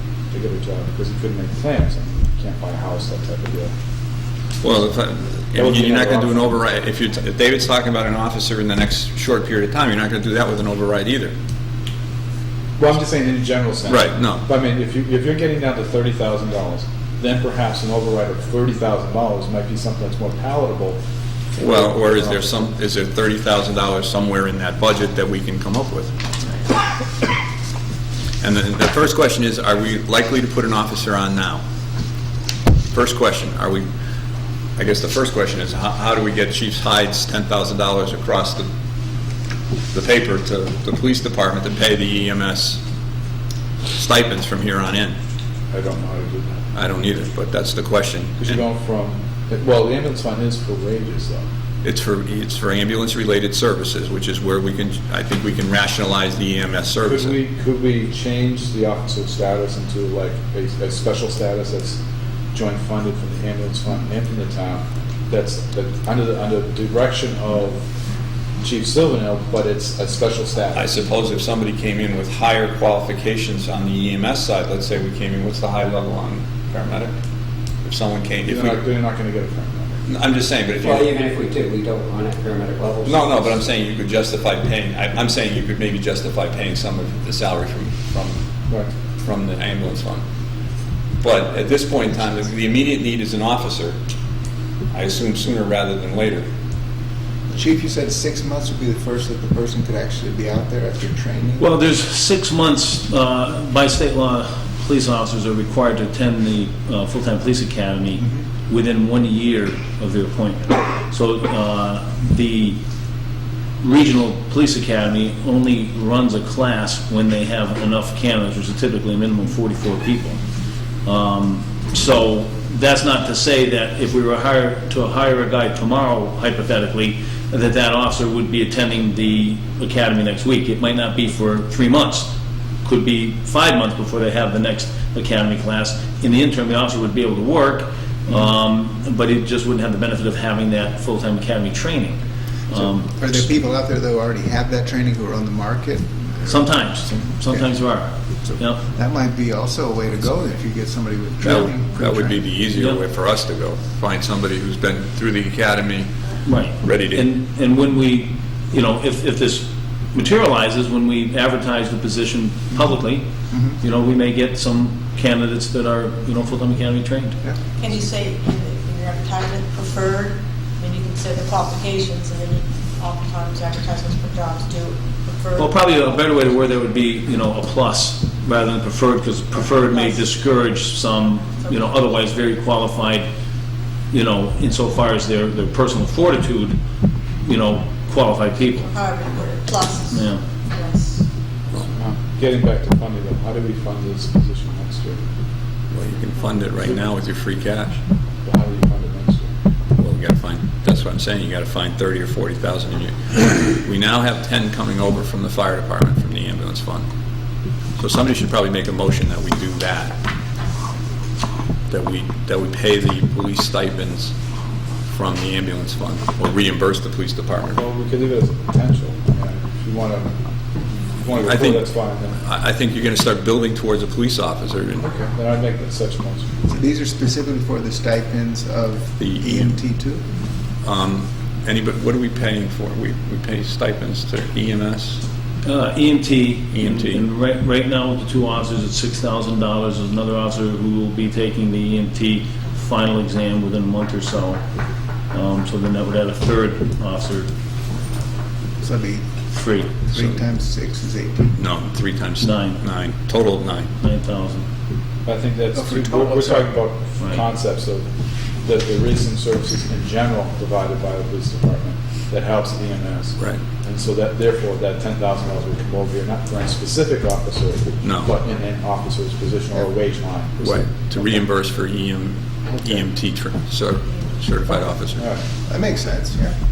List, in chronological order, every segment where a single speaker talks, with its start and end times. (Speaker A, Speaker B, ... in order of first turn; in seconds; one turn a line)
Speaker A: 0.3-3.7
Speaker B: 4.6-11.3
Speaker A: 5.5-6.5
Speaker A: 12.8-21.0
Speaker B: 13.8-14.4
Speaker A: 21.6-22.7
Speaker B: 21.6-26.1
Speaker B: 28.4-31.6
Speaker B: 32.9-33.9
Speaker B: 34.8-38.6
Speaker B: 39.9-42.8
Speaker B: 43.9-45.1
Speaker A: 45.7-46.6
Speaker B: 46.7-48.6
Speaker A: 48.4-51.5
Speaker B: 51.8-57.4
Speaker A: 57.0-62.0
Speaker A: 62.5-67.8
Speaker A: 68.6-71.0
Speaker B: 70.7-77.1
Speaker B: 77.8-78.8
Speaker A: 78.4-80.0
Speaker B: 80.0-81.1
Speaker C: 80.8-83.5
Speaker B: 83.0-88.4
Speaker B: 89.2-90.2
Speaker B: 91.2-94.0
Speaker B: 94.9-96.5
Speaker D: 97.5-101.7
Speaker E: 101.6-112.8
Speaker E: 113.8-120.4
Speaker E: 121.0-143.3
Speaker D: 143.0-146.7
Speaker E: 146.4-148.8
Speaker D: 147.4-147.7
Speaker D: 148.4-152.4
Speaker B: 151.4-156.1
Speaker E: 152.7-153.0
Speaker E: 156.4-163.2
Speaker B: 156.8-157.3
Speaker E: 163.8-167.4
Speaker F: 167.8-176.5
Speaker E: 175.6-183.3
Speaker F: 179.5-180.3
Speaker F: 181.5-182.0
Speaker E: 184.1-186.8
Speaker E: 187.4-188.9
Speaker F: 188.8-191.2
Speaker E: 190.1-190.4
Speaker A: 191.9-195.2
Speaker B: 195.9-198.0
Speaker A: 198.4-199.5
Speaker B: 200.0-207.1
Speaker B: 208.0-210.1
Speaker B: 211.9-214.3
Speaker B: 215.1-217.8
Speaker A: 217.7-220.4
Speaker A: 221.2-222.4
Speaker B: 221.3-225.1
Speaker A: 225.0-226.5
Speaker D: 226.7-230.2
Speaker B: 229.2-229.7
Speaker B: 230.8-235.2
Speaker E: 235.6-244.6
Speaker B: 236.7-237.2
Speaker E: 245.3-247.5
Speaker D: 248.8-249.2
Speaker E: 249.5-249.9
Speaker D: 250.1-251.6
Speaker B: 251.5-253.9
Speaker E: 252.4-252.8
Speaker E: 254.0-254.7
Speaker A: 255.2-258.1
Speaker D: 255.7-256.7
Speaker A: 258.6-271.4
Speaker B: 268.0-268.3
Speaker B: 270.6-275.2
Speaker A: 275.1-275.4
Speaker D: 275.6-276.6